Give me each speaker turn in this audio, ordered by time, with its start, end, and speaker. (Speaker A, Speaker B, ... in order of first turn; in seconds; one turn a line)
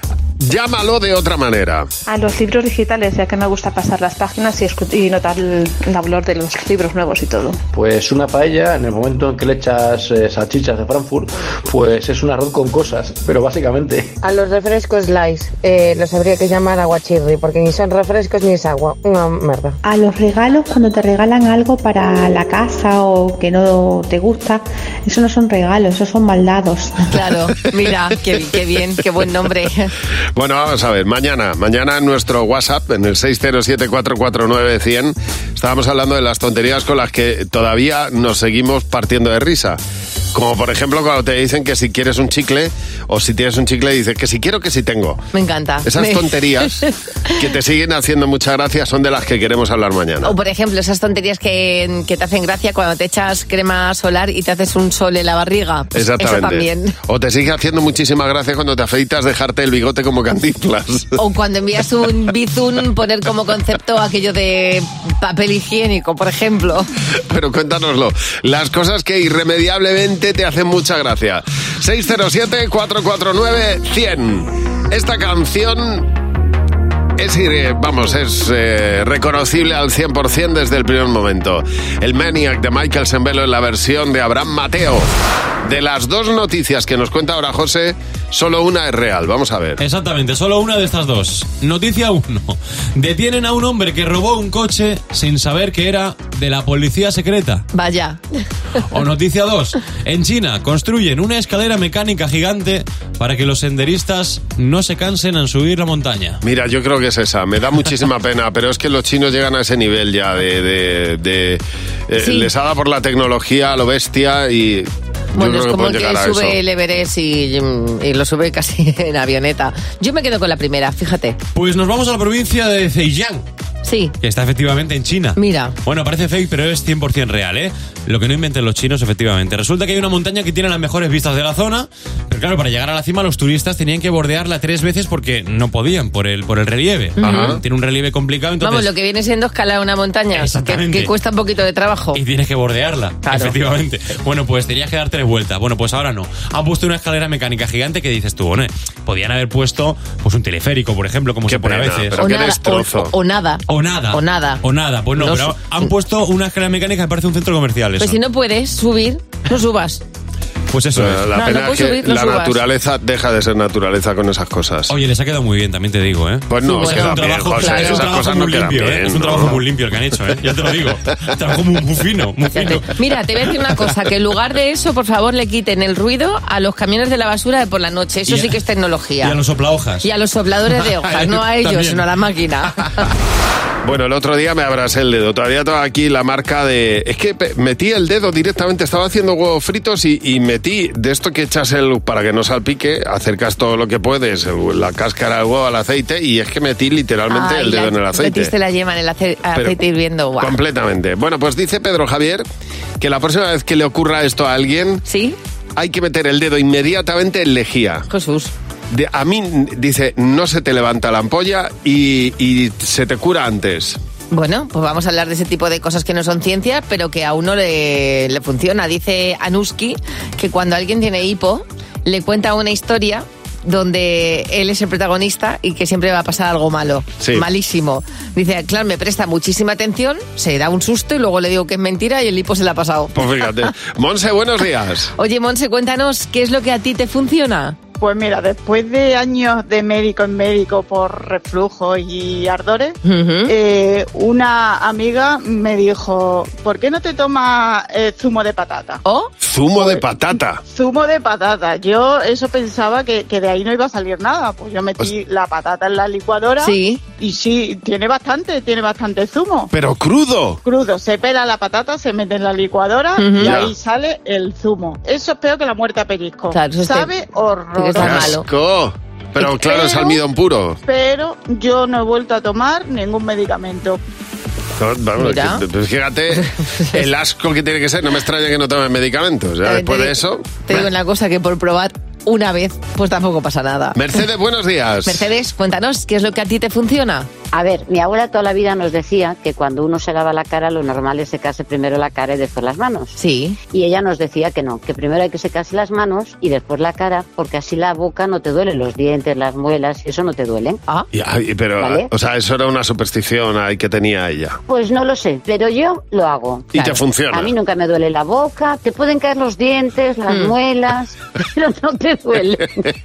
Speaker A: 0.4-1.9
Speaker B: 2.1-7.6
Speaker C: 7.7-14.1
Speaker D: 14.2-19.8
Speaker E: 19.8-27.1
Speaker F: 27.1-29.9
Speaker A: 30.4-39.8
Speaker A: 40.3-45.2
Speaker F: 45.3-46.3
Speaker A: 45.8-46.8
Speaker A: 47.4-50.3
Speaker F: 50.2-56.9
Speaker A: 55.9-61.2
Speaker F: 61.2-66.9
Speaker A: 67.3-76.1
Speaker A: 77.2-85.1
Speaker A: 85.6-89.8
Speaker G: 89.8-97.7
Speaker F: 97.7-98.2
Speaker G: 98.9-106.4
Speaker A: 106.4-116.6
Speaker F: 112.2-112.5
Speaker F: 115.3-121.4
Speaker G: 121.5-123.4
Speaker F: 123.8-124.1
Speaker G: 124.2-138.9
Speaker F: 125.3-125.8
Speaker F: 137.2-137.5
Speaker A: 137.2-137.6
Speaker F: 138.6-142.2
Speaker G: 140.3-141.1
Speaker G: 142.1-152.2
Speaker F: 143.2-143.6
Speaker A: 151.5-153.1
Speaker F: 152.2-154.6
Speaker G: 153.7-158.2
Speaker F: 155.2-155.9
Speaker F: 158.0-160.0
Speaker G: 160.7-161.3
Speaker A: 160.9-164.9
Speaker F: 161.3-162.6
Speaker G: 164.9-172.9
Speaker A: 166.5-169.6
Speaker F: 166.6-168.1
Speaker F: 172.5-179.3
Speaker G: 178.3-178.6
Speaker G: 179.2-180.0
Speaker F: 180.0-183.0
Speaker G: 180.8-182.0
Speaker A: 183.8-198.5
Speaker F: 197.3-200.6
Speaker A: 200.4-202.4
Speaker A: 203.0-205.0
Speaker F: 205.1-205.3
Speaker A: 205.8-208.1
Speaker F: 208.1-208.5
Speaker A: 208.9-214.0
Speaker F: 214.3-233.2
Speaker A: 233.1-235.1
Speaker F: 235.2-237.8
Speaker H: 238.0-249.0
Speaker F: 243.0-243.5
Speaker F: 249.0-249.3
Speaker A: 249.4-250.6
Speaker H: 250.7-259.7
Speaker F: 256.6-257.0
Speaker A: 259.7-260.6
Speaker H: 260.6-268.3
Speaker F: 263.2-263.5
Speaker A: 263.4-263.7
Speaker F: 266.5-267.1
Speaker F: 267.8-268.4
Speaker A: 268.0-270.8
Speaker F: 269.4-269.8
Speaker H: 270.9-274.0
Speaker A: 274.8-280.9
Speaker F: 275.2-275.6
Speaker F: 276.4-277.0
Speaker F: 279.6-284.0
Speaker A: 283.9-285.3
Speaker F: 285.0-287.3
Speaker I: 287.5-293.1
Speaker F: 293.2-293.6
Speaker I: 293.7-300.8
Speaker A: 301.1-304.6
Speaker I: 301.8-302.1
Speaker I: 304.7-306.7
Speaker A: 306.7-307.5
Speaker I: 307.3-312.8
Speaker F: 310.3-310.5